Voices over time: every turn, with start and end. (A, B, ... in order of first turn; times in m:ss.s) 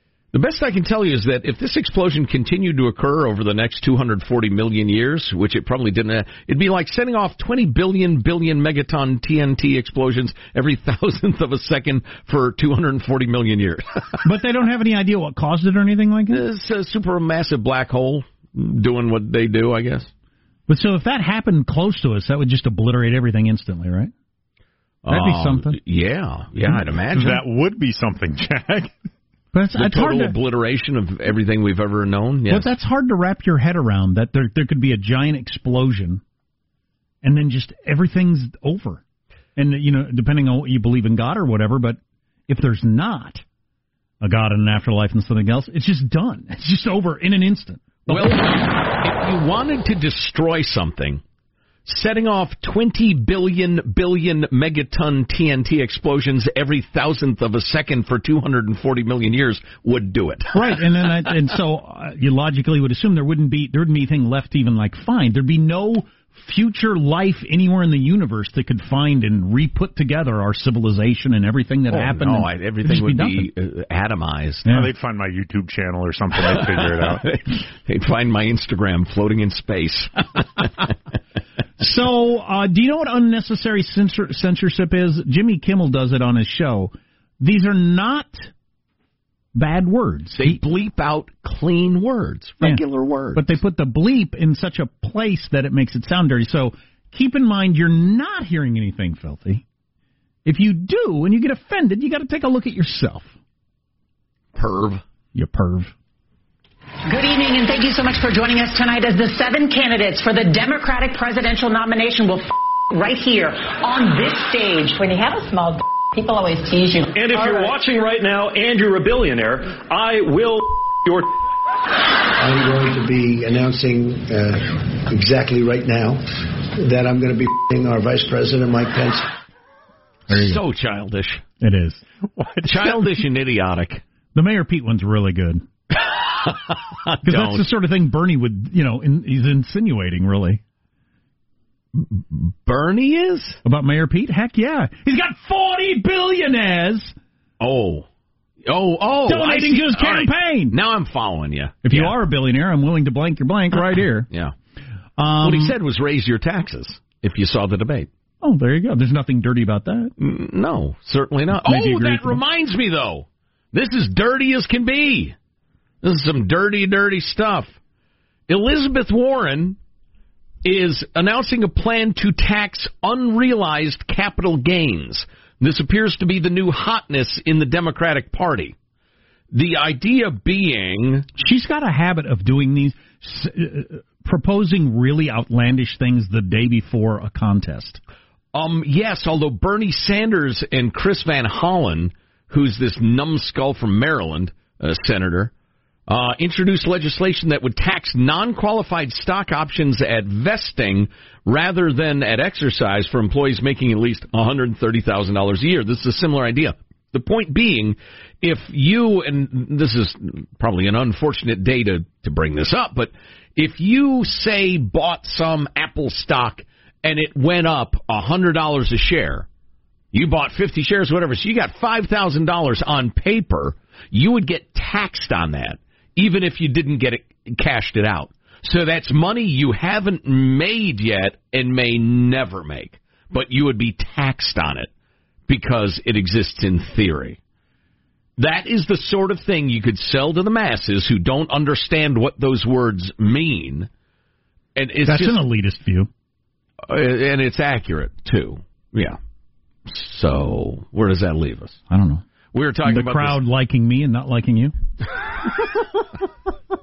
0:00.3-0:14.2 A
0:14.2-0:16.4 B
0:16.3-0:20.1 A
0:20.7-0:24.1 B
0:25.0-0:27.4 A
0:25.1-0:25.8 B
0:27.1-0:28.9 C
0:29.5-0:30.4 B
0:29.8-0:32.7 A
0:32.5-0:36.2 B
0:37.2-0:39.0 B
0:39.6-0:43.4 B
0:44.2-0:48.6 B
0:48.1-0:51.2 A
0:51.8-1:00.8 A
1:00.5-1:13.5 B
1:11.9-1:14.7 A
1:14.7-1:17.2 C
1:16.4-1:20.9 A
1:21.8-1:28.5 B
1:29.5-1:30.6 B
1:30.4-1:33.4 A
1:33.3-1:39.6 B
1:40.4-1:43.3 B
1:44.5-1:45.0 A
1:45.3-1:45.9 B
1:47.1-1:57.1 D
1:57.1-2:01.3 E
2:02.3-2:06.2 F
2:06.8-2:09.3 F
2:10.3-2:11.4 A
2:10.3-2:10.6 B
2:11.6-2:12.0 B
2:12.4-2:12.6 C
2:12.6-2:14.0 A
2:14.3-2:15.6 B
2:16.4-2:17.6 A
2:17.2-2:20.6 B
2:21.9-2:23.6 A
2:23.6-2:27.1 B
2:27.6-2:28.1 A
2:28.6-2:32.2 A
2:29.2-2:30.8 B
2:31.8-2:34.3 B
2:34.3-2:34.5 A
2:35.2-2:35.8 B
2:35.4-2:38.1 A
2:38.4-2:40.1 B
2:40.2-2:45.4 A
2:41.6-2:42.4 B
2:46.0-2:47.8 A
2:48.5-2:49.8 A
2:50.6-2:58.8 A
2:59.5-3:01.3 A
3:01.4-3:08.0 B
3:08.5-3:15.5 A
3:16.1-3:39.5 A
3:40.1-3:54.9 A
3:55.5-3:57.4 A
3:58.4-4:03.9 A
4:04.7-4:05.4 A
4:05.0-4:06.1 B
4:06.8-4:09.2 A
4:09.8-4:11.8 A
4:11.9-4:12.2 B
4:12.5-4:13.4 A
4:12.8-4:14.7 B